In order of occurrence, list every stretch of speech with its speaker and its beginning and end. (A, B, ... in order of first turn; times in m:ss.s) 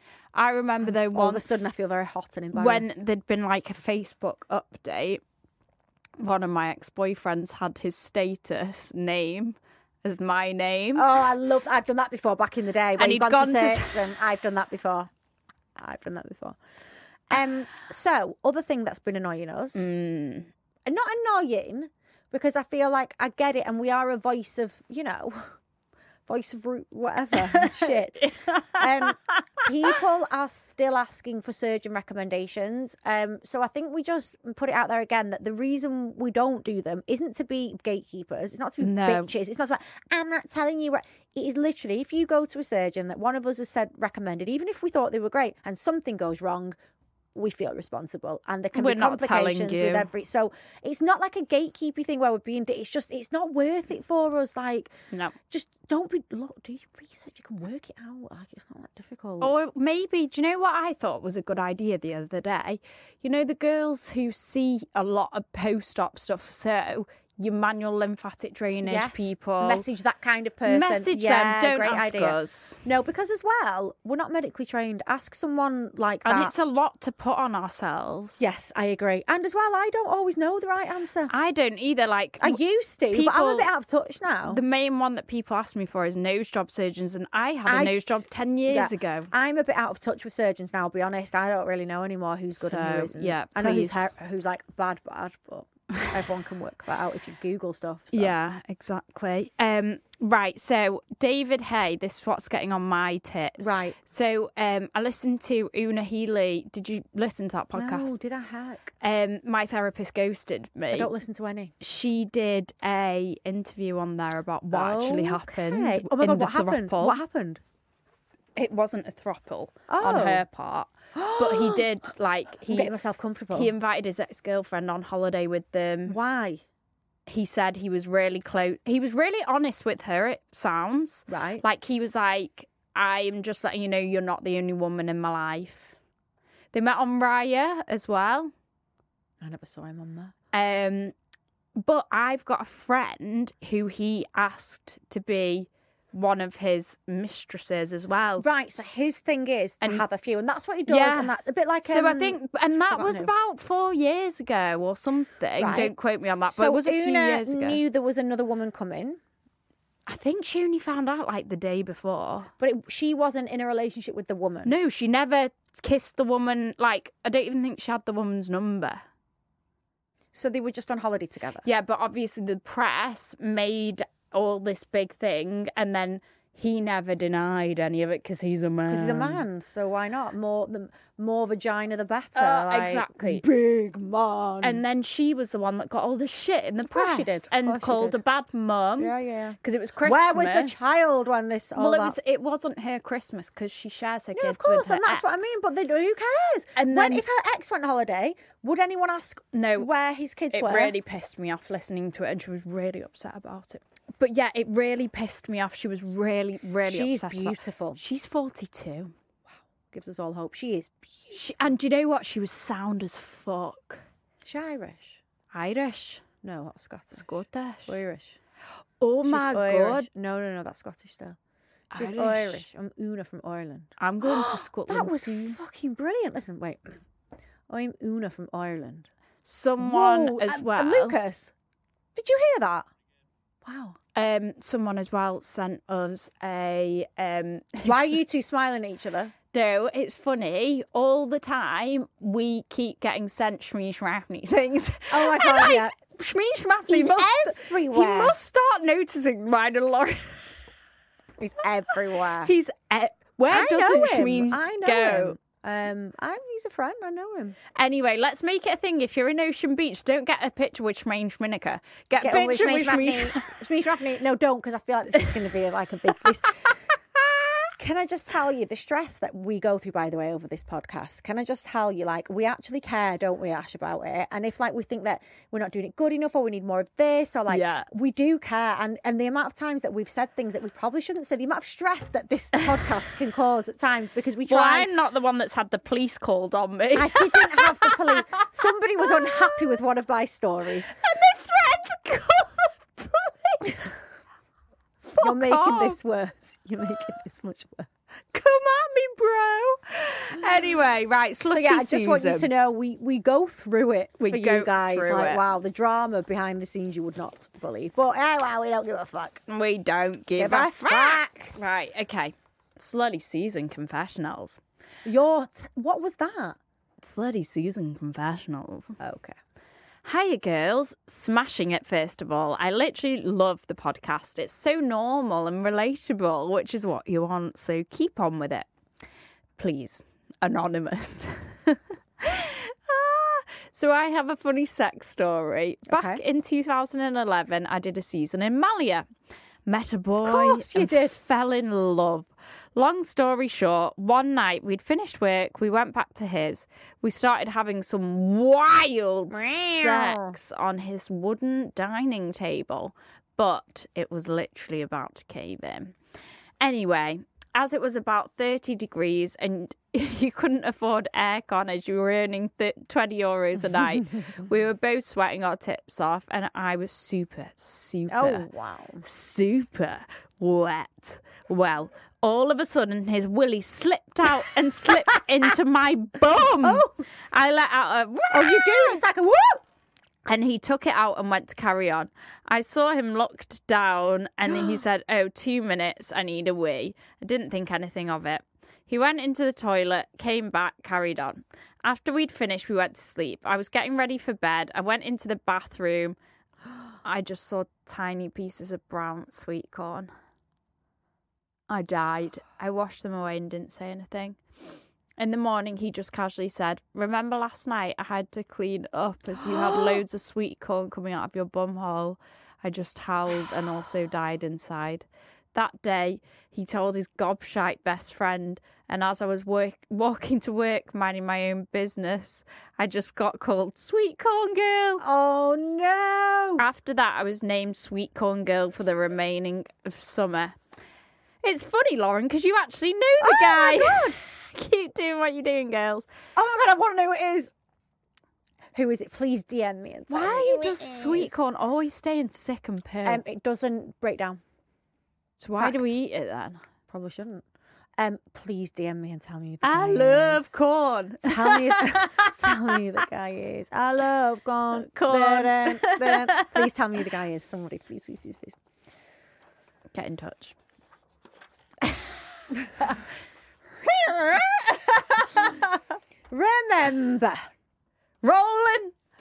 0:00.3-0:01.7 A
0:00.8-0:02.9 B
0:02.5-0:05.2 A
0:06.2-0:11.1 A
0:10.9-0:15.1 B
0:13.0-0:14.1 A
0:15.8-0:16.6 B
0:17.3-0:19.9 B
0:19.7-0:20.5 A
0:20.8-0:25.5 B
0:26.2-0:46.8 B
0:27.5-0:29.1 A
0:38.8-0:39.3 A
0:47.3-0:54.9 B
0:48.7-0:50.1 A
0:55.5-0:59.5 B
0:59.4-1:09.8 A
1:08.8-1:16.5 B
1:10.6-1:12.8 A
1:16.2-1:18.5 A
1:18.4-1:21.3 B
1:21.3-1:23.7 A
1:22.4-1:24.6 B
1:24.5-1:29.3 A
1:27.6-1:38.3 B
1:32.6-1:34.1 A
1:38.1-1:48.2 A
1:43.6-1:44.0 B
1:47.8-1:48.9 B
1:49.0-1:51.1 A
1:50.9-1:51.7 B
1:51.8-1:57.2 A
1:54.7-1:57.6 B
1:58.6-2:02.9 A
1:59.9-2:00.4 B
2:01.1-2:01.8 B
2:02.7-2:03.7 B
2:03.5-2:06.2 A
2:06.1-2:06.6 B
2:07.3-2:15.9 A
2:11.3-2:11.6 B
2:16.7-2:18.5 A
2:19.4-2:20.3 B
2:20.5-2:21.1 A
2:21.8-2:28.4 A
2:28.4-2:33.3 B
2:30.9-2:37.8 A
2:35.6-2:36.0 B
2:36.5-2:39.2 B
2:40.1-2:42.5 A
2:42.6-2:44.7 B
2:44.6-2:49.0 A
2:50.3-2:51.6 B
2:51.6-2:59.4 A
2:58.9-3:04.8 B
3:02.4-3:03.4 A
3:04.6-3:10.8 A
3:06.8-3:08.2 B
3:09.0-3:12.2 B
3:11.8-3:15.5 A
3:14.3-3:21.0 B
3:16.8-3:17.2 A
3:19.5-3:19.9 A
3:20.5-3:29.1 A
3:26.8-3:28.0 B
3:29.9-3:31.3 B
3:31.3-3:34.0 A
3:34.4-3:35.2 B
3:35.5-3:36.2 A
3:36.4-3:37.2 B
3:37.1-3:38.0 A
3:37.9-3:38.4 B
3:39.0-3:40.1 A
3:39.2-3:41.4 B
3:41.9-3:42.6 A
3:41.9-3:47.0 B
3:44.0-3:45.6 A
3:47.7-3:49.1 B
3:49.4-3:51.2 A
3:49.8-3:51.5 B
3:52.1-3:52.9 B
3:53.6-3:54.0 B
3:54.1-3:58.2 A
3:57.8-3:59.3 B
3:59.5-4:10.5 A
4:05.1-4:06.0 B
4:06.9-4:08.4 B
4:11.4-4:12.5 B
4:12.4-4:15.4 A
4:13.5-4:17.6 B
4:17.8-4:23.6 A
4:22.2-4:26.7 B
4:27.8-4:44.9 B
4:37.5-4:37.9 A
4:44.5-4:48.5 A
4:46.9-4:51.0 B
4:51.0-4:53.9 A
4:55.1-4:56.0 A
4:55.2-4:57.9 B
4:58.3-5:02.5 A
5:01.5-5:09.4 B
5:04.2-5:05.4 A
5:09.5-5:14.6 A
5:10.4-5:11.6 B
5:15.0-5:16.6 B
5:17.0-5:19.0 A
5:19.0-5:19.4 B
5:20.0-5:28.7 A
5:29.6-5:39.0 A
5:35.9-5:36.2 B
5:39.6-5:56.0 A
5:40.2-5:41.2 B
5:49.3-5:50.4 B
5:56.6-6:08.4 A
6:08.1-6:09.0 B
6:09.0-6:19.0 A
6:16.6-6:17.0 B
6:18.3-6:19.6 B
6:20.2-6:36.2 A
6:37.0-6:40.1 A
6:41.7-6:44.4 A
6:45.2-7:05.0 A
7:05.0-7:06.6 B
7:06.6-7:10.6 A
7:11.4-7:16.1 A
7:13.2-7:14.2 B
7:16.4-7:17.5 B
7:18.7-7:21.3 B
7:20.1-7:23.2 A
7:23.0-7:24.4 B
7:25.4-7:26.6 A
7:25.6-7:25.9 B
7:26.9-7:27.4 B
7:28.0-7:30.5 B
7:29.6-7:32.7 A
7:31.2-7:38.6 B
7:34.7-7:36.7 A
7:39.9-7:40.5 A
7:43.8-7:45.8 A
7:46.3-7:47.5 B
7:48.2-7:48.9 A